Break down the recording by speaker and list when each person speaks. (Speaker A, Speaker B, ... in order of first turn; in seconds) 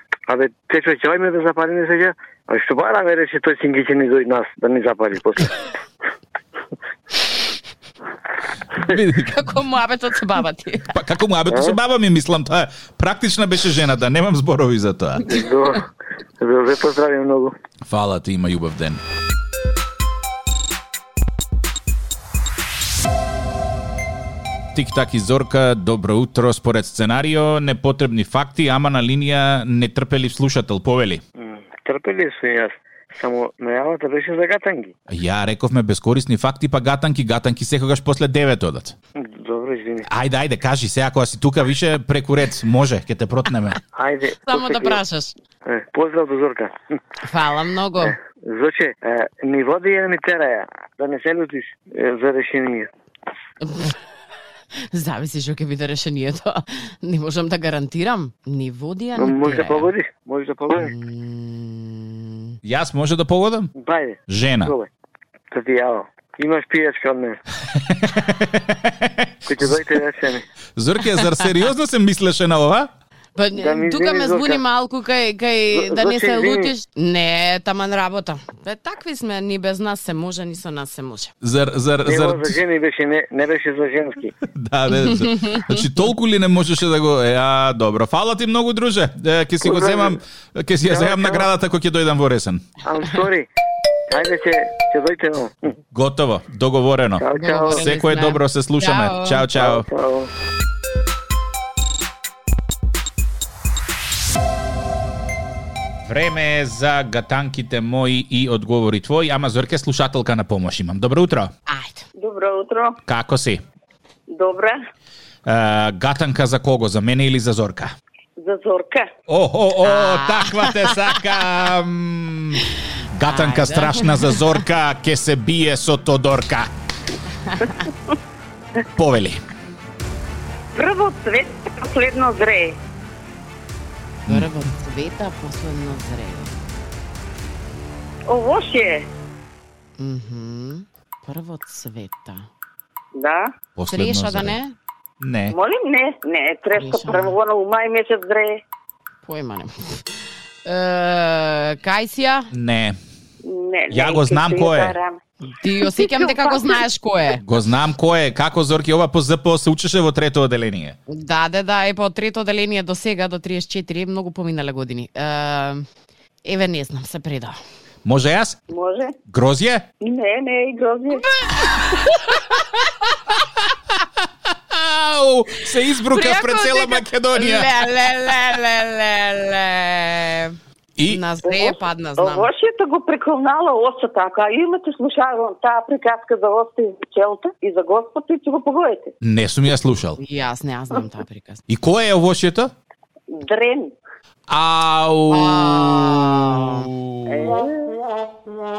Speaker A: 0.3-5.6, 11.5-11.7, 15.2-17.5, 31.4-34.9, 39.2-40.1, 43.9-45.0, 45.6-46.8, 48.0-52.9, 59.1-60.9, 63.7-64.9, 65.5-67.4, 69.5-70.5, 73.5-74.6, 75.7-76.7, 82.0-84.3, 89.6-90.2, 90.8-91.5, 92.8-93.5, 94.1-95.7, 97.2-97.9, 99.5-100.3
Speaker B: 8.8-9.6, 10.9-15.4, 17.9-19.0, 24.7-31.2, 35.1-39.0, 40.0-43.8, 62.6-63.7, 64.3-64.7, 67.7-69.7, 70.8-72.9, 81.4-82.6, 84.4-92.7, 95.9-99.9, 106.0-111.5, 113.0-113.6, 115.4-117.9, 119.3-126.7, 128.9-129.4, 143.8-144.6, 145.2-145.6, 152.5-153.0, 153.9-154.9, 157.4-161.0, 168.0-168.6, 169.3-169.8, 174.7-177.8, 181.0-181.2, 189.2-190.2, 191.7-192.7, 194.5-197.4
Speaker C: 9.0-10.9, 44.4-45.3, 47.2-48.1, 53.6-53.9, 54.9-59.9, 60.7-62.5, 73.3-81.3, 85.0-85.8, 97.3-99.5, 111.7-112.0, 119.8-121.2, 123.2-124.4, 127.5-127.7, 134.3-136.6, 140.0-142.5, 143.9-144.7, 146.7-147.3, 149.2-150.0, 150.6-152.5, 155.6-157.4, 161.1-165.8, 166.4-167.6, 171.6-171.9, 176.1-182.5, 190.2-191.6, 195.3-196.9
Speaker D: 112.2-113.0, 114.3-114.8, 118.4-119.1, 130.7-132.8, 138.3-139.1, 143.1-143.5, 145.5-148.6, 153.4-155.2, 155.8-156.8, 168.7-169.2, 170.0-171.3, 181.4-189.1, 193.3-193.9, 197.2-198.0